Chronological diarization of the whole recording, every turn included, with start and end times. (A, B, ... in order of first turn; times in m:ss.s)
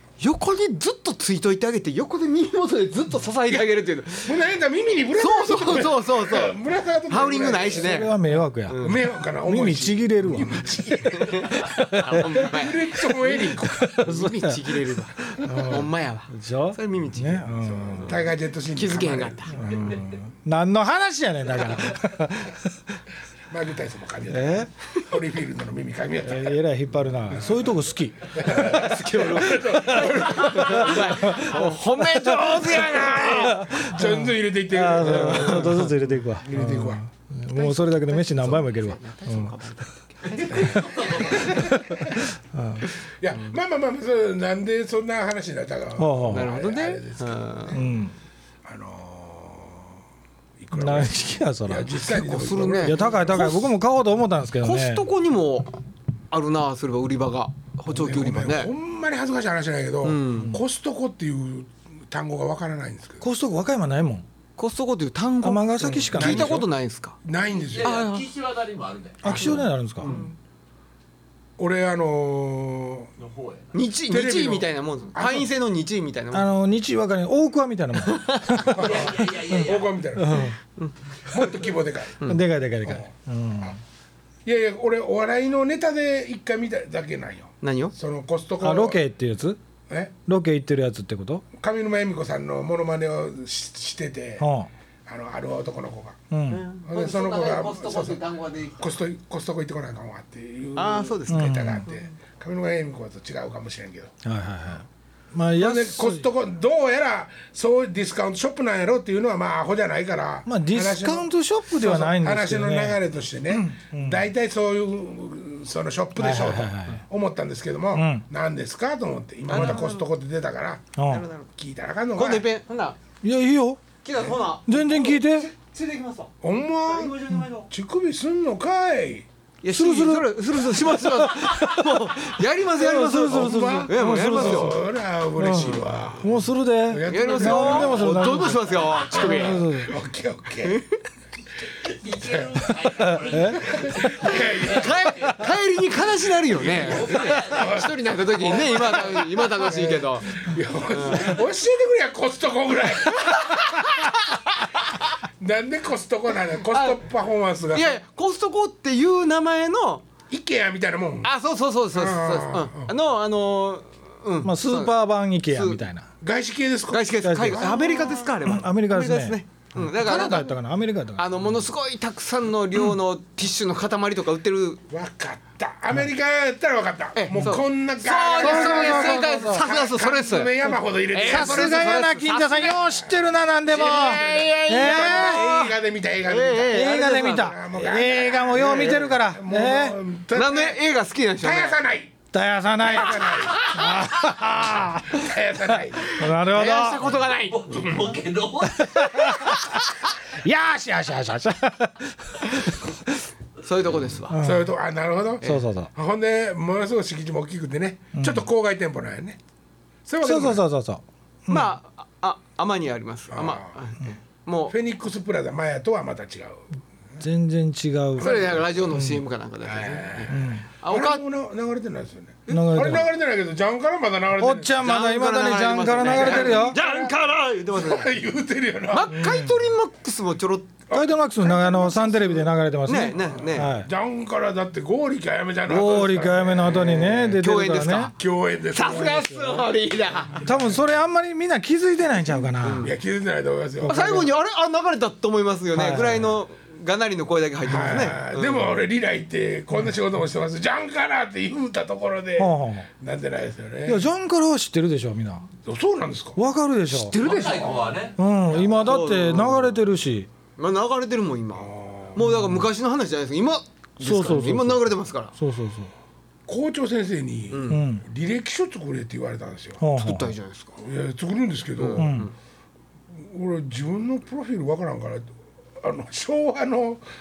0:00.2-0:04.4 A
0:04.2-0:08.1 B
0:05.2-0:06.6 A
0:07.1-0:08.1 A
0:07.8-0:11.0 C
0:08.7-0:09.0 A
0:08.8-0:11.5 B
0:11.0-0:18.2 A
0:11.5-0:12.4 C
0:12.3-0:13.9 B
0:13.6-0:18.2 C
0:17.6-0:20.0 B
0:18.7-0:19.6 A
0:19.5-0:23.0 C
0:23.5-0:26.6 B
0:24.3-0:24.7 C
0:26.2-0:28.9 C
0:27.3-0:27.7 B
0:28.3-0:31.6 B
0:28.5-0:33.7 A
0:29.7-0:32.8 C
0:32.2-0:37.0 B
0:33.4-0:39.6 C
0:35.1-0:35.9 A
0:37.5-0:42.0 A
0:40.5-0:42.2 B
0:41.3-0:42.9 C
0:43.0-0:47.9 B
0:46.0-0:46.5 C
0:46.3-0:47.8 A
0:47.7-0:48.1 C
0:48.6-0:50.0 B
0:50.6-0:53.6 B
0:50.7-0:52.1 C
0:52.1-0:53.7 A
0:52.8-0:55.0 C
0:54.6-0:55.7 A
0:56.3-0:58.7 A
0:57.9-1:03.2 B
1:00.0-1:00.6 A
1:03.2-1:04.2 C
1:04.6-1:07.2 A
1:05.4-1:06.7 C
1:05.8-1:06.6 B
1:07.2-1:08.0 B
1:07.7-1:09.5 D
1:07.8-1:08.3 A
1:09.2-1:10.2 C
1:09.2-1:10.2 B
1:10.0-1:10.3 A
1:11.6-1:13.1 B
1:13.2-1:13.7 D
1:13.7-1:16.5 A
1:14.1-1:15.5 B
1:16.3-1:19.0 C
1:18.0-1:18.7 A
1:18.7-1:20.4 B
1:18.7-1:20.0 D
1:20.2-1:20.6 C
1:20.4-1:21.0 A
1:21.3-1:22.2 B
1:22.2-1:23.8 C
1:24.4-1:29.0 B
1:27.6-1:27.9 A
1:28.6-1:29.6 C
1:29.9-1:30.1 B
1:30.3-1:31.4 C
1:31.6-1:34.5 B
1:34.4-1:34.7 C
1:35.1-1:36.2 B
1:36.3-1:36.6 C
1:36.5-1:38.9 A
1:36.8-1:38.2 B
1:38.8-1:44.1 B
1:40.8-1:42.0 A
1:41.3-1:41.9 C
1:44.2-1:46.3 C
1:45.6-2:01.0 B
1:50.5-1:54.2 C
1:56.2-1:57.0 C
1:57.9-1:58.2 C
1:59.5-2:00.1 A
2:01.0-2:01.3 C
2:01.1-2:01.5 A
2:01.6-2:02.5 B
2:02.2-2:03.0 A
2:03.2-2:03.8 C
2:04.0-2:07.7 A
2:04.7-2:05.5 C
2:06.4-2:07.2 B
2:07.7-2:09.3 B
2:09.6-2:14.8 A
2:09.7-2:14.8 C
2:13.0-2:18.4 B
2:15.4-2:20.0 C
2:17.1-2:19.6 A
2:19.1-2:20.8 B
2:20.6-2:21.0 A
2:21.8-2:25.5 D
2:22.2-2:22.6 B
2:22.9-2:24.0 C
2:23.4-2:25.0 B
2:24.3-2:31.4 A
2:26.6-2:33.9 B
2:26.7-2:27.8 D
2:33.1-2:34.9 A
2:35.4-2:38.0 B
2:36.7-2:37.0 A
2:37.7-2:40.0 A
2:40.3-2:41.3 B
2:41.2-2:44.9 A
2:41.9-2:42.9 B
2:44.4-2:46.1 C
2:45.5-2:45.8 A
2:46.2-2:48.4 B
2:46.9-2:50.5 A
2:47.2-2:47.8 C
2:48.4-2:51.6 C
2:51.2-2:54.8 A
2:54.9-3:02.1 B
2:57.2-3:02.8 A
2:58.4-2:59.7 C
3:01.2-3:05.5 C
3:03.7-3:05.7 A
3:03.7-3:10.8 B
3:06.2-3:07.5 A
3:06.7-3:10.0 C
3:08.6-3:09.0 A
3:10.4-3:11.8 A
3:11.4-3:12.2 B
3:12.3-3:17.2 C
3:12.8-3:13.7 B
3:13.2-3:14.1 A
3:15.1-3:16.2 B
3:16.0-3:17.9 A
3:17.5-3:19.4 D
3:18.6-3:23.1 C
3:19.2-3:19.8 A
3:23.6-3:24.4 A
3:24.3-3:24.7 C
3:24.4-3:29.4 B
3:25.4-3:25.9 C
3:28.2-3:28.5 C
3:30.1-3:30.6 B
3:30.2-3:31.7 C
3:31.5-3:34.7 A
3:33.3-3:33.8 B
3:34.7-3:36.7 B
3:37.2-3:39.2 C
3:38.2-3:41.2 A
3:38.2-3:38.8 B
3:39.6-3:44.8 B
3:40.3-3:40.6 C
3:42.5-3:43.1 C
3:44.4-3:46.8 C
3:44.8-3:48.1 A
3:46.0-3:47.2 B
3:47.7-3:49.2 B
3:48.9-3:50.7 A
3:49.1-3:49.5 C
3:50.9-3:52.5 B
3:50.9-3:53.9 C
3:52.9-3:53.7 A
3:53.2-3:57.3 B
3:55.7-3:58.1 C
3:56.9-3:58.2 A
3:58.2-3:59.3 B
3:58.7-4:00.5 A
3:58.9-3:59.6 C
4:00.4-4:00.8 B
4:00.4-4:02.9 C
4:02.6-4:02.9 A
4:02.8-4:04.3 B
4:03.9-4:08.7 A
4:05.7-4:06.4 C
4:07.6-4:14.1 B
4:12.4-4:12.9 C
4:13.8-4:15.5 C
4:15.6-4:16.4 B
4:16.4-4:17.2 C
4:16.9-4:18.0 A
4:17.1-4:18.2 D
4:18.2-4:20.3 C
4:18.8-4:19.8 A
4:20.6-4:25.4 A
4:21.6-4:22.2 B
4:22.2-4:22.6 C
4:24.0-4:25.9 C
4:26.5-4:29.8 B
4:27.5-4:27.8 A
4:27.7-4:28.0 C
4:29.8-4:30.4 C
4:29.9-4:30.8 A
4:30.8-4:32.3 B
4:31.8-4:32.3 A
4:32.0-4:32.3 C
4:33.2-4:37.0 B